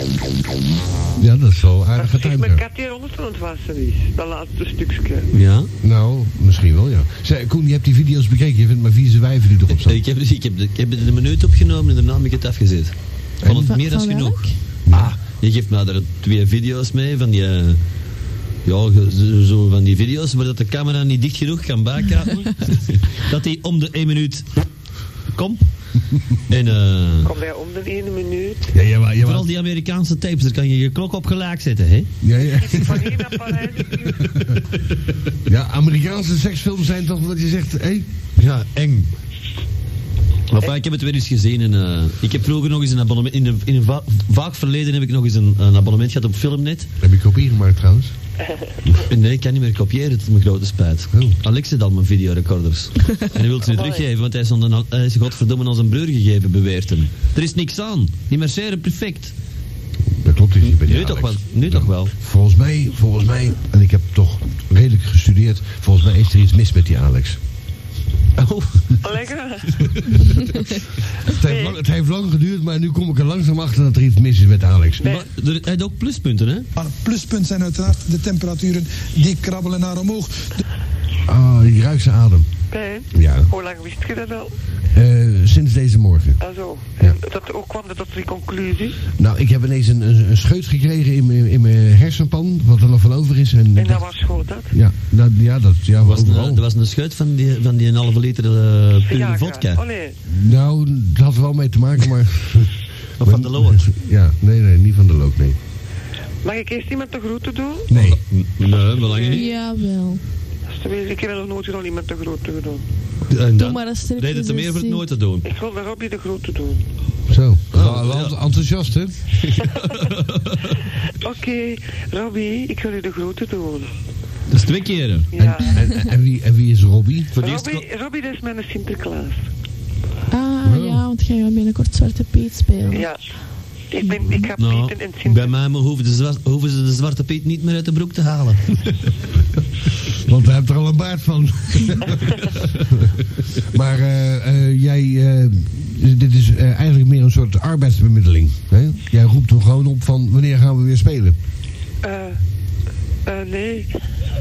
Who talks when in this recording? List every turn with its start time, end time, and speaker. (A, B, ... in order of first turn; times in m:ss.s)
0:01.2-0:02.6 A
0:02.0-0:05.3 B
0:05.3-0:05.7 C
0:05.8-0:10.0 A
0:09.8-0:17.8 C
0:13.4-0:13.7 A
0:13.5-0:14.5 D
0:14.9-0:15.2 A
0:18.6-0:24.7 C
0:25.3-0:25.7 C
0:26.5-0:27.3 C
0:27.2-0:28.7 B
0:28.7-0:29.5 A
0:29.2-0:32.1 C
0:32.2-0:33.4 A
0:32.4-0:34.5 B
0:34.1-0:34.6 A
0:35.5-0:38.1 A
0:38.4-0:39.1 C
0:40.5-0:46.9 C
0:47.0-0:48.1 A
0:49.1-0:59.3 C
0:51.1-0:51.4 A
0:53.6-0:54.1 B
1:00.2-1:07.4 A
1:00.6-1:02.1 C
1:08.4-1:08.7 C
1:09.0-1:09.9 B
1:11.3-1:15.0 A
1:11.4-1:11.8 B
1:15.0-1:15.3 B
1:15.0-1:16.7 C
1:16.8-1:20.6 E
1:21.3-1:22.5 A
1:22.7-1:24.6 B
1:23.1-1:23.5 A
1:24.9-1:26.4 A
1:26.4-1:29.0 B
1:29.2-1:34.0 A
1:33.8-1:34.7 B
1:34.6-1:36.6 A
1:36.0-1:39.8 C
1:39.1-1:40.2 B
1:40.3-1:45.6 A
1:43.2-1:43.9 C
1:46.4-1:47.9 B
1:47.9-1:48.2 A
1:47.9-1:49.5 C
1:49.0-1:49.5 B
1:49.3-1:50.2 D
1:50.7-1:52.8 B
1:53.3-1:55.5 C
1:53.6-1:55.0 D
1:55.4-1:56.8 B
1:57.3-1:59.3 A
1:57.7-1:58.4 C
1:59.4-2:00.6 C
2:01.2-2:03.9 B
2:04.5-2:05.3 C
2:05.3-2:05.8 B
2:05.3-2:07.3 A
2:07.3-2:07.8 C
2:07.4-2:09.4 B
2:10.3-2:13.1 D
2:10.6-2:11.0 A
2:12.9-2:13.2 B
2:13.9-2:15.6 B
2:14.6-2:19.0 C
2:20.2-2:23.1 A
2:23.7-2:31.4 A
2:32.0-2:32.4 B
2:33.3-2:33.9 B